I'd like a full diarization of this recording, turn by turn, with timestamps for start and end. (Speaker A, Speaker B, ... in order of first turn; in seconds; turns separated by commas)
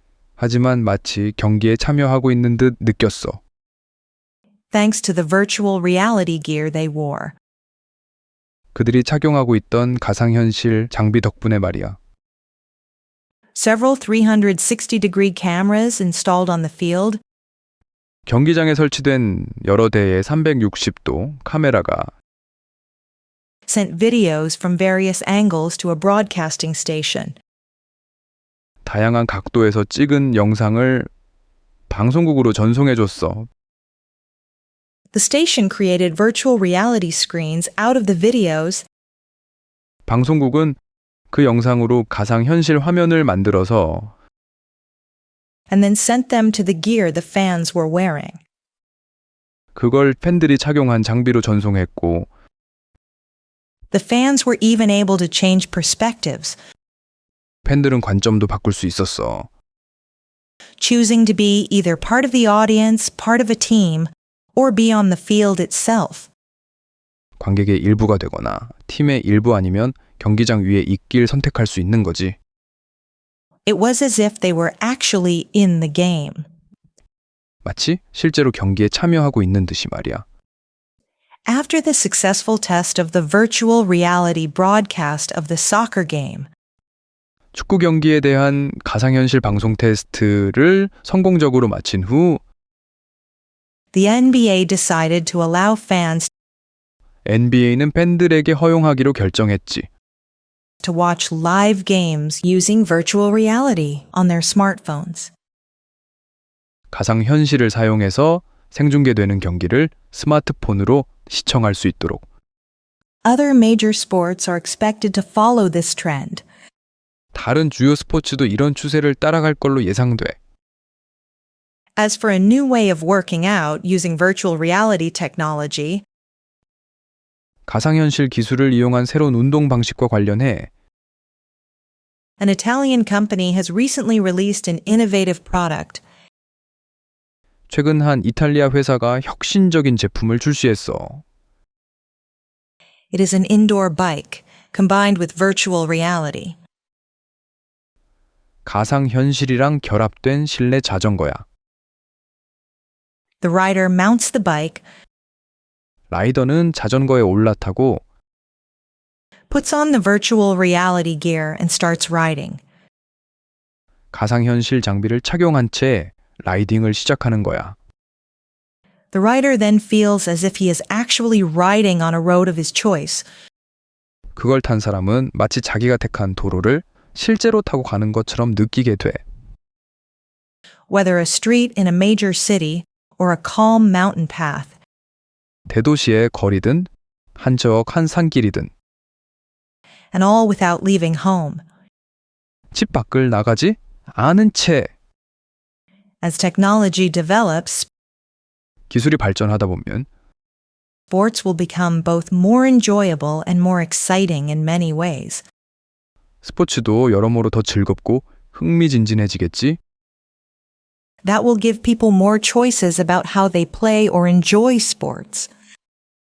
Speaker A: 0.4-3.4, Speaker B: 4.7-7.3, Speaker A: 8.7-12.0, Speaker B: 13.5-17.2, Speaker A: 18.3-22.1, Speaker B: 23.7-27.4, Speaker A: 28.8-31.1, Speaker A: 31.9-33.5, Speaker B: 35.1-38.9, Speaker A: 40.1-40.8, Speaker A: 41.3-44.1, Speaker B: 45.7-48.4, Speaker A: 49.7-52.3, Speaker B: 53.9-56.5, Speaker A: 57.6-59.5, Speaker B: 60.8-66.3, Speaker A: 67.4-72.4, Speaker B: 73.7-76.5, Speaker A: 77.6-80.2, Speaker B: 81.5-86.5, Speaker A: 87.5-92.4, Speaker B: 93.9-96.3, Speaker A: 97.2-99.9, Speaker B: 100.8-105.3, Speaker A: 106.9-112.2, Speaker B: 113.2-116.4, Speaker A: 117.3-120.4, Speaker B: 122.0-126.0, Speaker A: 127.7-130.7, Speaker B: 132.4-136.0, Speaker A: 137.7-141.2, Speaker B: 143.1-146.6, Speaker A: 148.6-151.4, Speaker B: 153.4-154.8, Speaker A: 156.1-158.0, Speaker B: 159.5-162.6, Speaker A: 164.1-167.8, Speaker B: 169.1-173.2, Speaker A: 174.3-179.2, Speaker B: 180.9-184.7, Speaker A: 185.7-188.7, Speaker B: 190.1-191.6, Speaker A: 192.7-194.9, Speaker B: 196.2-197.9, Speaker A: 198.9-200.1, Speaker B: 201.1-205.4, Speaker A: 206.4-209.8, Speaker B: 211.2-215.5